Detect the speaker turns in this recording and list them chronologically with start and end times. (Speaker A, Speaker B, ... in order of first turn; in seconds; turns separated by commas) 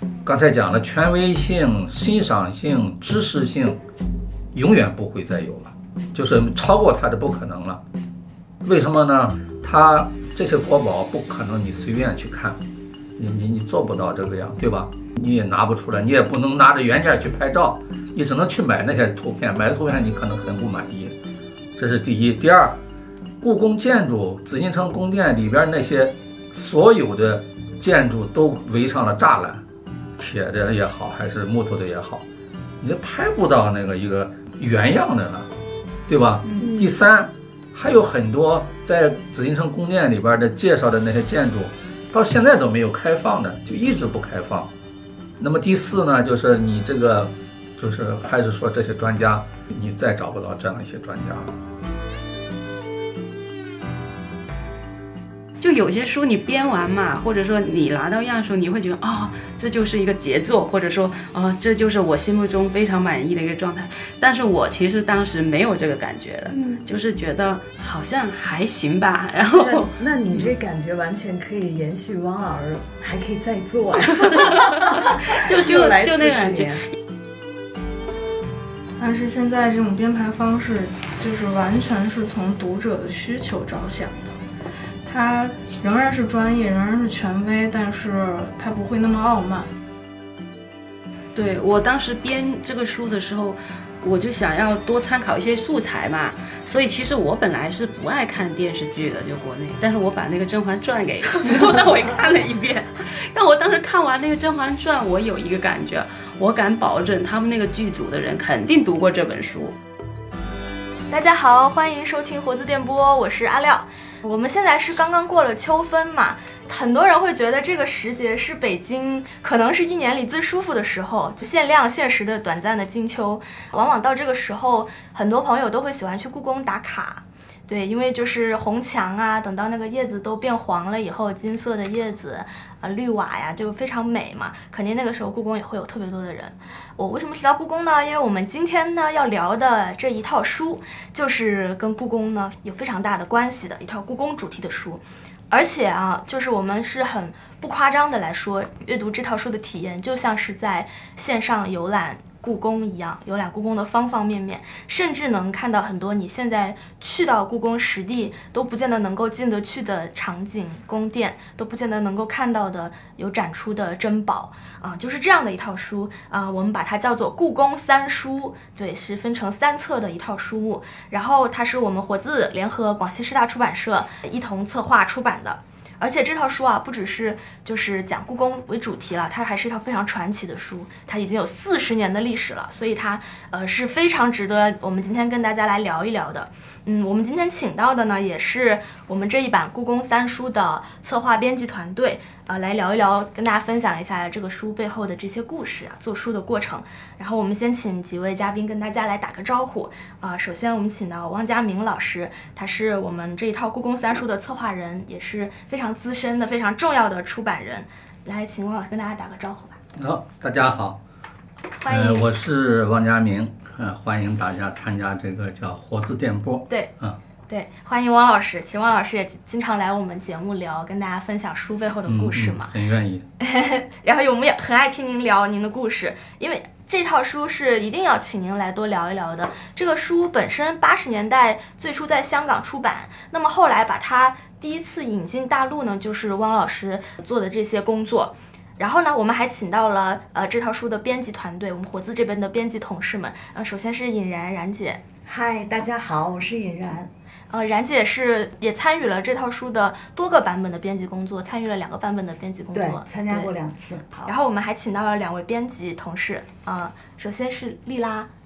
Speaker A: 0.2-3.8, Speaker A: 4.5-7.8, Speaker A: 8.6-12.6, Speaker A: 13.2-21.2, Speaker A: 21.8-22.8, Speaker A: 23.4-29.6, Speaker A: 30.2-32.2, Speaker A: 32.8-35.5, Speaker A: 36.1-44.7, Speaker B: 36.6-36.9, Speaker A: 45.4-51.5, Speaker C: 55.6-69.9, Speaker B: 66.5-66.8, Speaker D: 69.5-76.8, Speaker C: 74.2-76.9, Speaker E: 79.0-84.4, Speaker E: 85.0-89.7, Speaker C: 91.3-109.8, Speaker B: 111.1-209.8, Speaker A: 210.0-211.0, Speaker B: 211.8-212.3, Speaker A: 211.9-217.2, Speaker B: 217.5-222.7, Speaker A: 222.1-223.2, Speaker B: 223.4-245.0, Speaker D: 245.3-247.1, Speaker B: 247.5-253.5, Speaker D: 252.7-254.3, Speaker B: 254.2-258.3